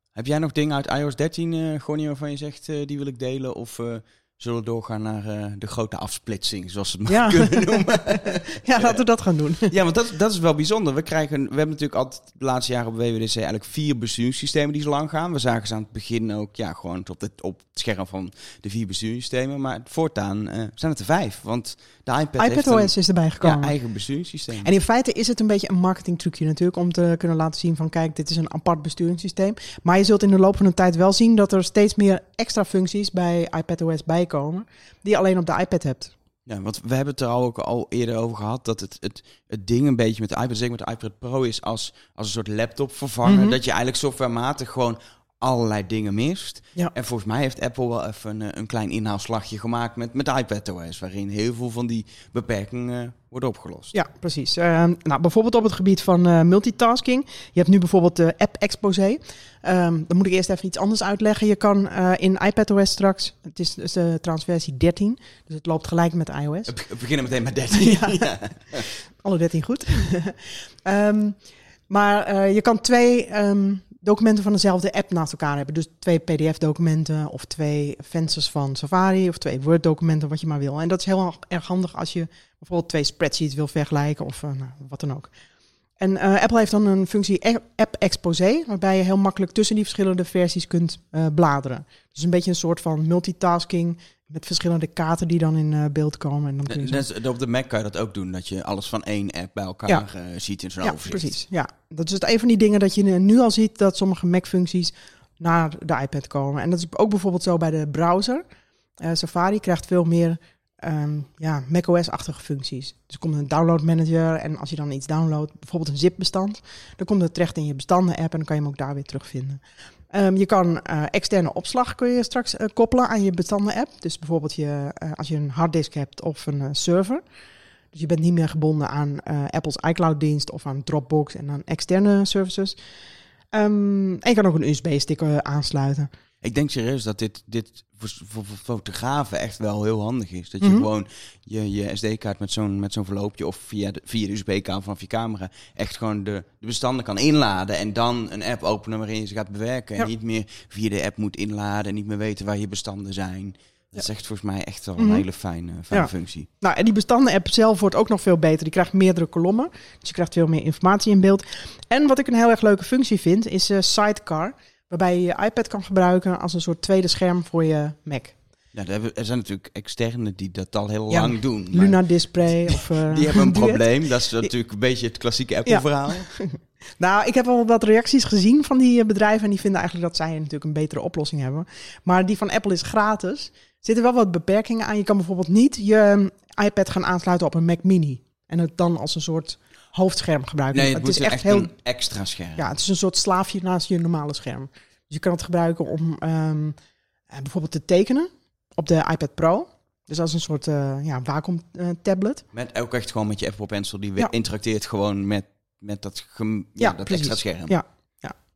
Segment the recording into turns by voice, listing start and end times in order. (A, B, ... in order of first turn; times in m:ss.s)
0:00.1-0:09.0 A
0:07.1-0:09.7 B
0:09.7-0:24.7 A
0:22.4-0:23.7 B
0:24.6-0:36.1 B
0:36.5-0:53.9 A
0:43.2-0:43.6 B
0:53.9-1:06.7 B
1:06.7-1:08.8 A
1:07.7-1:08.3 B
1:09.2-1:25.3 B
1:26.0-1:37.0 B
1:36.7-1:41.3 A
1:40.8-1:48.4 B
1:49.0-2:07.2 B
2:07.9-2:12.8 B
2:13.5-2:16.1 B
2:16.4-2:36.5 A
2:20.6-2:20.9 B
2:35.0-2:35.2 B
2:36.6-2:48.3 B
2:48.7-2:52.0 A
2:51.1-2:53.8 B
2:52.7-2:56.3 A
2:55.6-3:11.7 B
3:10.7-3:12.7 A
3:12.6-3:16.8 B
3:17.3-3:22.4 B
3:22.5-3:27.7 A
3:26.8-3:28.4 B